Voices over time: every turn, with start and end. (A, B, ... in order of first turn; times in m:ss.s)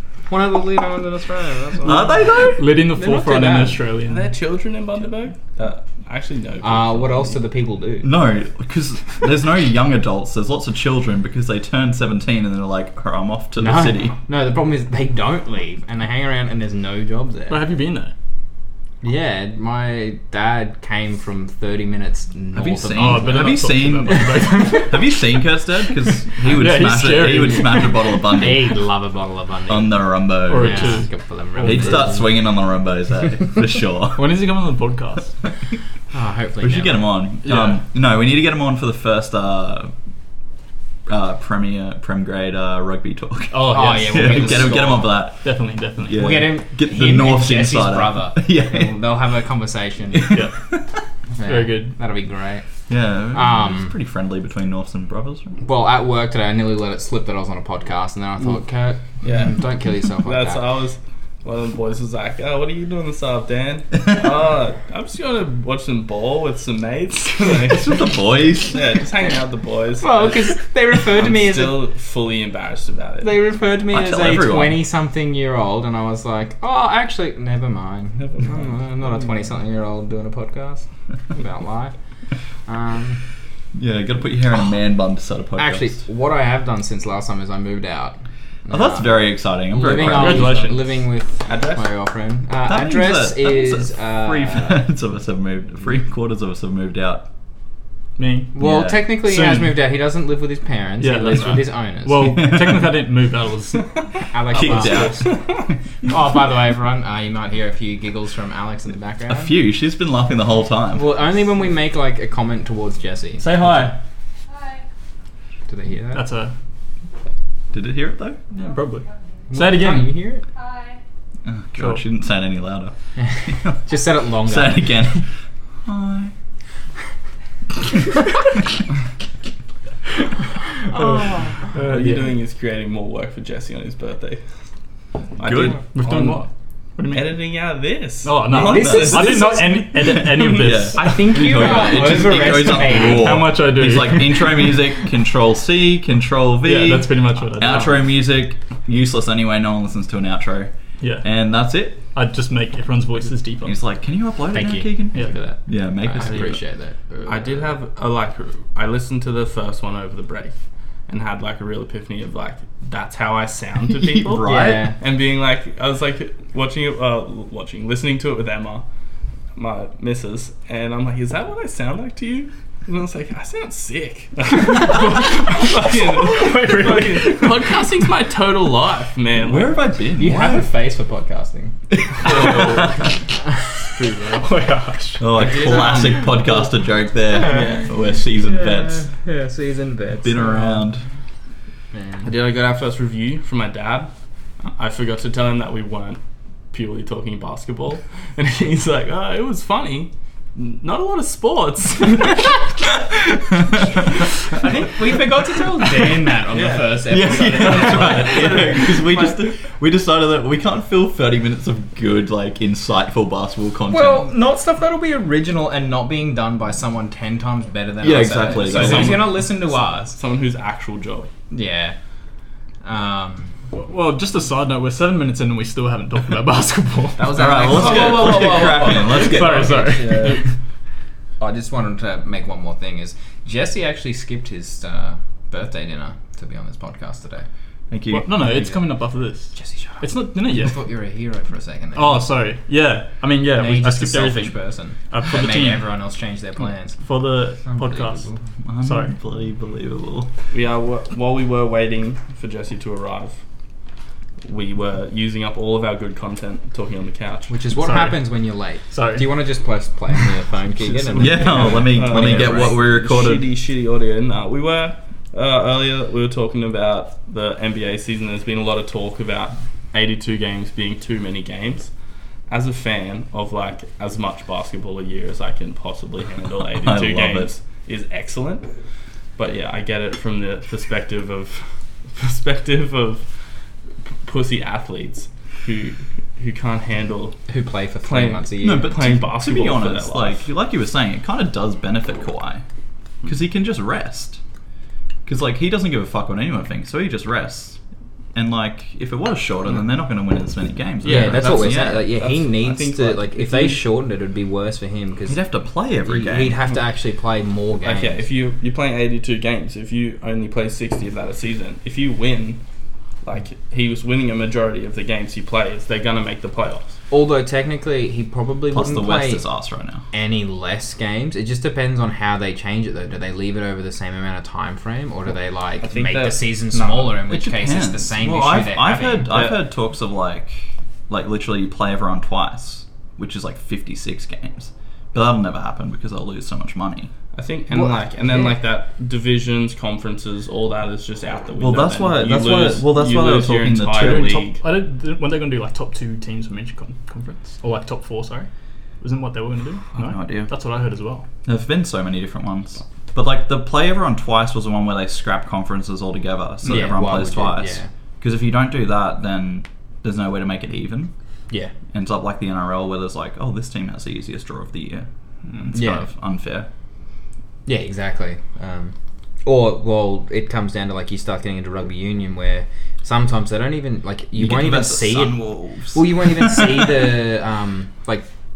0:00.3-0:03.8 A
0:01.8-0:02.7 B
0:02.4-0:04.3 C
0:04.1-0:07.4 D
0:06.6-0:08.1 A
0:08.0-0:14.2 B
0:13.6-0:17.6 A
0:17.5-0:18.1 C
0:19.0-0:24.9 A
0:22.5-0:28.8 B
0:22.9-0:25.2 C
0:26.4-0:28.4 C
0:28.3-0:32.4 A
0:29.7-0:31.1 B
0:30.4-0:32.2 C
0:31.6-0:34.2 B
0:34.1-0:35.3 C
0:36.1-0:37.0 A
0:36.6-0:39.9 B
0:37.4-0:37.8 C
0:41.1-0:49.0 B
0:43.5-0:44.9 C
0:43.6-0:45.2 A
0:45.4-0:46.5 C
0:46.1-0:50.4 A
0:50.1-0:50.8 B
0:50.3-0:50.6 C
0:51.4-0:52.6 A
0:51.4-0:52.0 C
0:52.9-0:55.6 B
0:53.3-0:53.9 A
0:55.6-1:00.6 A
0:59.2-0:59.6 D
1:00.2-1:08.1 D
1:07.6-1:08.8 B
1:08.6-1:13.3 D
1:10.0-1:11.8 A
1:13.2-1:21.9 A
1:13.9-1:14.8 B
1:18.2-1:18.6 D
1:22.6-1:23.2 A
1:23.7-1:26.0 B
1:25.6-1:34.8 A
1:28.7-1:30.7 B
1:29.9-1:30.9 C
1:31.5-1:31.8 D
1:32.6-1:37.2 B
1:38.2-1:39.8 C
1:38.5-1:42.5 A
1:38.6-1:39.0 B
1:41.0-1:44.0 C
1:42.2-1:42.9 B
1:44.3-1:45.4 A
1:44.5-1:45.5 B
1:44.6-1:45.1 C
1:46.0-1:49.6 A
1:49.3-1:51.1 B
1:50.9-1:53.9 A
1:53.4-1:54.0 C
1:55.7-1:56.2 A
1:56.1-1:56.5 C
1:57.7-1:58.4 B
1:58.5-2:00.2 C
1:59.5-2:00.4 A
2:01.4-2:05.2 B
2:01.8-2:02.0 C
2:03.2-2:05.2 A
2:05.8-2:06.3 B
2:10.9-2:11.6 A
2:10.9-2:11.5 B
2:11.6-2:12.4 C
2:11.7-2:14.4 D
2:15.4-2:16.5 D
2:15.4-2:15.8 B
2:15.9-2:17.4 C
2:17.1-2:18.4 D
2:18.2-2:24.9 C
2:18.5-2:19.5 B
2:18.5-2:23.4 A
2:20.1-2:32.0 B
2:26.6-2:28.1 C
2:31.0-2:31.3 C
2:32.0-2:33.8 C
2:33.6-2:36.6 B
2:34.5-2:37.7 A
2:36.2-2:36.6 D
2:37.2-2:48.8 D
2:43.9-2:44.9 B
2:44.4-2:45.0 A
2:49.6-2:59.8 D
2:54.6-2:58.0 C
2:59.3-3:00.7 B
3:00.1-3:01.7 A
3:01.9-3:03.2 B
3:02.2-3:02.9 D
3:02.4-3:02.8 C
3:04.0-3:05.3 C
3:05.2-3:09.1 B
3:05.3-3:06.3 D
3:06.0-3:06.2 A
3:07.4-3:10.9 A
3:07.5-3:07.9 D
3:10.2-3:11.0 B
3:11.9-3:12.3 A
3:12.2-3:14.1 D
3:14.7-3:16.2 D
3:16.7-3:22.7 D
3:24.5-3:24.9 D
3:24.6-3:29.4 A
3:26.5-3:27.0 D
3:27.0-3:34.3 B
3:27.9-3:28.7 D
3:33.9-3:40.1 A
3:38.0-3:39.3 B
3:38.5-3:39.5 D
3:40.0-3:41.3 D
3:41.5-3:42.0 A
3:42.8-3:43.5 A
3:43.7-3:47.9 C
3:47.2-3:50.4 A
3:47.3-3:50.0 B
3:47.6-3:49.3 D
3:48.5-3:50.4 C
3:50.1-3:50.4 D
3:51.4-3:57.4 A
3:57.9-3:58.3 B
3:58.1-4:00.8 C
3:58.5-3:58.8 A
3:59.5-4:02.3 A
4:01.9-4:04.6 C
4:03.6-4:07.0 A
4:05.1-4:05.9 C
4:07.0-4:08.3 C
4:07.6-4:08.4 A
4:08.6-4:10.3 B
4:08.8-4:09.1 C
4:10.5-4:13.4 D
4:14.4-4:17.5 D
4:17.5-4:22.7 A
4:17.8-4:18.3 C
4:18.9-4:19.4 C
4:20.9-4:21.9 C
4:21.2-4:23.4 B
4:21.7-4:31.9 D
4:32.5-4:38.7 D
4:36.7-4:37.5 B
4:39.4-4:43.2 D
4:44.2-4:47.4 D
4:47.5-4:48.9 A
4:48.0-4:50.5 D
4:48.6-4:52.6 B
4:53.2-4:54.4 B
4:55.2-4:57.8 B
4:58.3-5:02.1 B
5:01.0-5:03.8 D
5:01.0-5:05.4 A
5:05.3-5:06.6 B
5:06.0-5:08.2 A
5:07.8-5:12.6 D
5:13.2-5:17.0 D
5:17.1-5:19.4 A
5:18.7-5:20.0 B
5:20.1-5:29.3 A
5:25.8-5:27.1 D
5:27.3-5:37.1 B
5:29.3-5:29.6 D
5:37.3-5:44.6 D
5:37.7-5:38.6 A
5:41.6-5:44.5 B
5:44.0-5:48.5 C
5:49.0-5:51.2 C
5:49.9-5:50.5 B
5:51.4-6:01.1 B
5:56.6-5:57.9 A
6:01.9-6:06.7 B
6:05.7-6:06.1 A
6:07.6-6:18.3 A
6:14.3-6:17.0 B